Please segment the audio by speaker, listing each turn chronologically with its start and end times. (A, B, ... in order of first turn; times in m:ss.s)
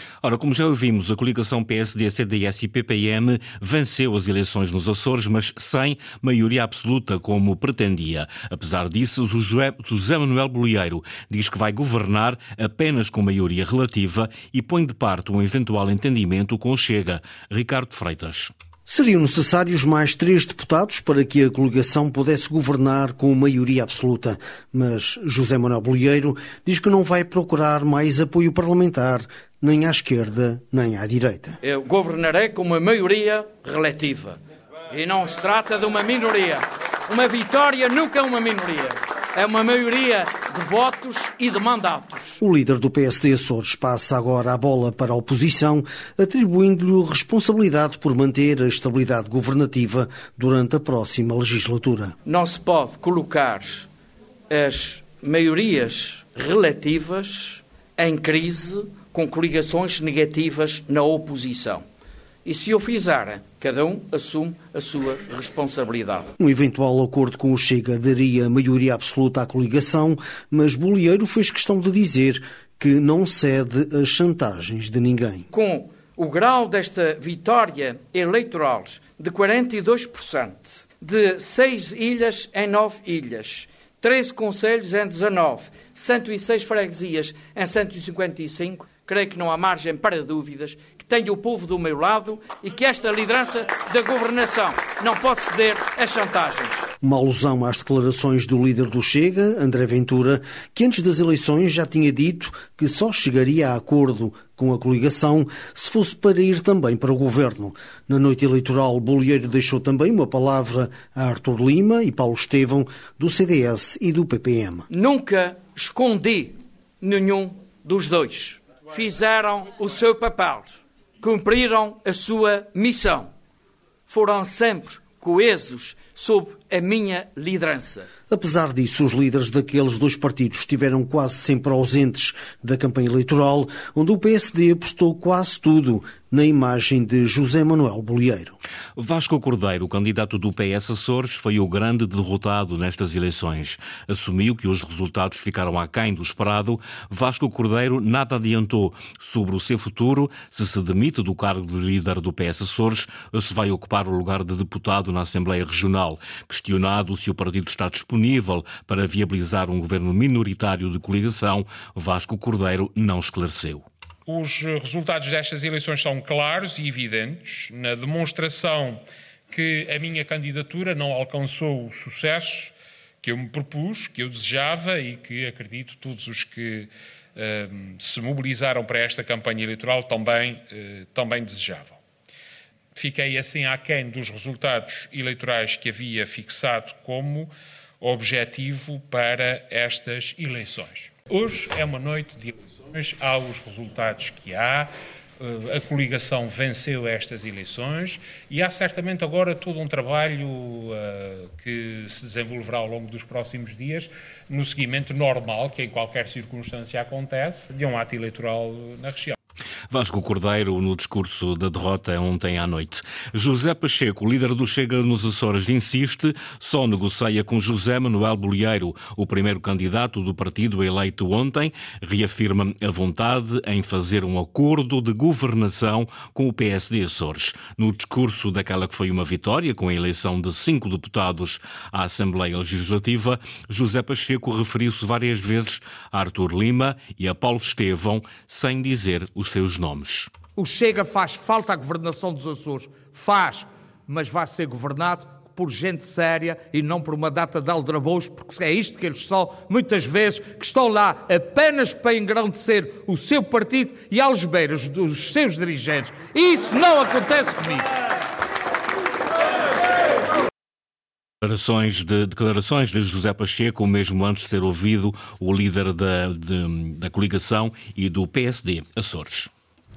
0:00.2-0:18.5 A
0:18.9-0:31.6 B
0:31.6-0:42.4 C
0:42.4-0:52.1 B
0:52.2-0:53.9 C
0:54.5-1:01.8 C
1:02.4-1:06.3 C
1:06.4-1:15.4 B
1:15.5-1:36.8 C
1:37.0-1:54.8 B
1:54.9-2:03.3 C
2:04.1-2:08.1 C
2:08.3-2:18.5 B
2:19.0-2:43.8 A
2:44.3-3:02.0 D
3:03.0-3:29.4 D
3:29.9-4:00.3 A
4:00.6-4:17.9 E
4:21.4-4:29.5 A